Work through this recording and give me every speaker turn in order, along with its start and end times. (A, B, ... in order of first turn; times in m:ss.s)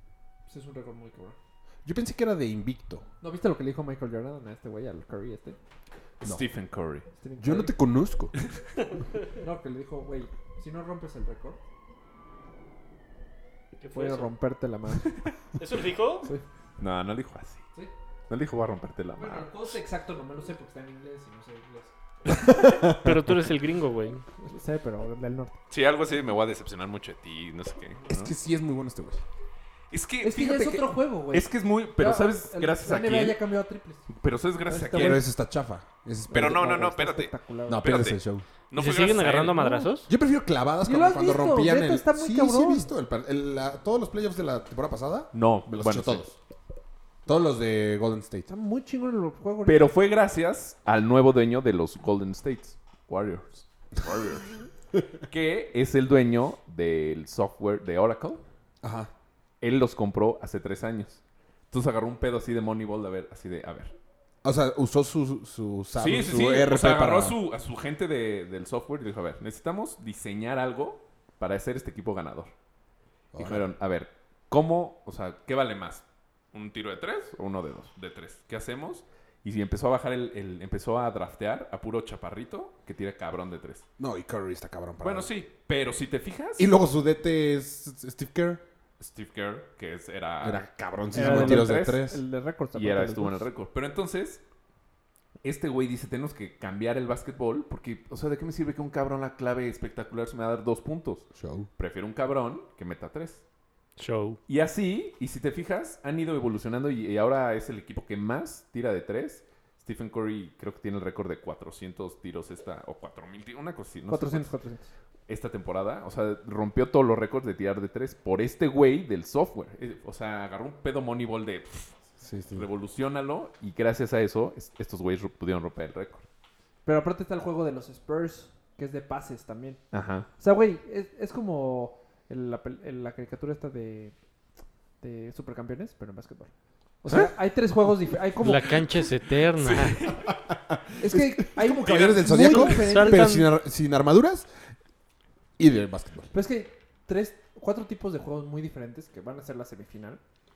0:00.5-0:01.4 A
0:01.8-0:03.0 B
0:03.2-0:05.6 A
0:06.2-0:07.1 C
0:07.2-0:07.7 A
0:07.4-0:08.3 B
0:09.4-0:11.6 A
0:13.8-0:14.3 D
0:13.9-0:15.1 A
0:15.6-0:16.3 D
0:16.8-0:17.6 C
0:18.3-0:19.8 C
0:19.2-0:21.9 A
0:22.5-0:23.2 B
0:22.9-0:24.2 D
0:24.4-0:25.6 A
0:25.7-0:28.3 C
0:28.1-0:29.2 B
0:29.9-0:33.4 C
0:30.2-0:34.1 A
0:34.1-0:35.2 C
0:34.7-0:35.2 A
0:34.9-0:37.0 B
0:36.3-0:37.9 A
0:36.3-0:38.2 C
0:37.7-0:38.5 B
0:38.7-0:39.9 C
0:38.7-0:40.1 D
0:40.1-0:46.4 B
0:40.8-0:42.9 A
0:45.3-0:46.2 C
0:47.3-0:48.5 B
0:48.5-0:50.0 A
0:49.6-0:54.6 C
0:55.3-0:58.4 C
0:58.8-0:59.1 B
0:59.6-1:04.0 C
1:04.4-1:07.4 B
1:06.0-1:12.5 C
1:13.3-1:13.7 B
1:13.4-1:23.8 C
1:24.0-1:25.3 B
1:25.0-1:26.7 C
1:26.6-1:28.6 B
1:29.0-1:32.0 C
1:30.4-1:32.2 B
1:31.2-1:33.4 A
1:32.7-1:34.4 C
1:35.4-1:43.4 C
1:41.4-1:41.7 B
1:44.0-1:44.4 D
1:44.5-1:54.5 C
1:54.1-1:54.9 A
1:55.3-2:01.9 C
2:02.2-2:02.7 B
2:02.5-2:06.2 C
2:06.8-2:09.8 A
2:09.9-2:10.3 C
2:10.4-2:14.1 A
2:15.0-2:16.5 A
2:17.0-2:18.8 A
2:18.4-2:20.0 D
2:19.6-2:20.4 C
2:20.1-2:24.5 B
2:21.0-2:23.4 A
2:21.8-2:22.7 C
2:22.6-2:23.5 D
2:25.6-2:26.3 B
2:26.3-2:30.2 A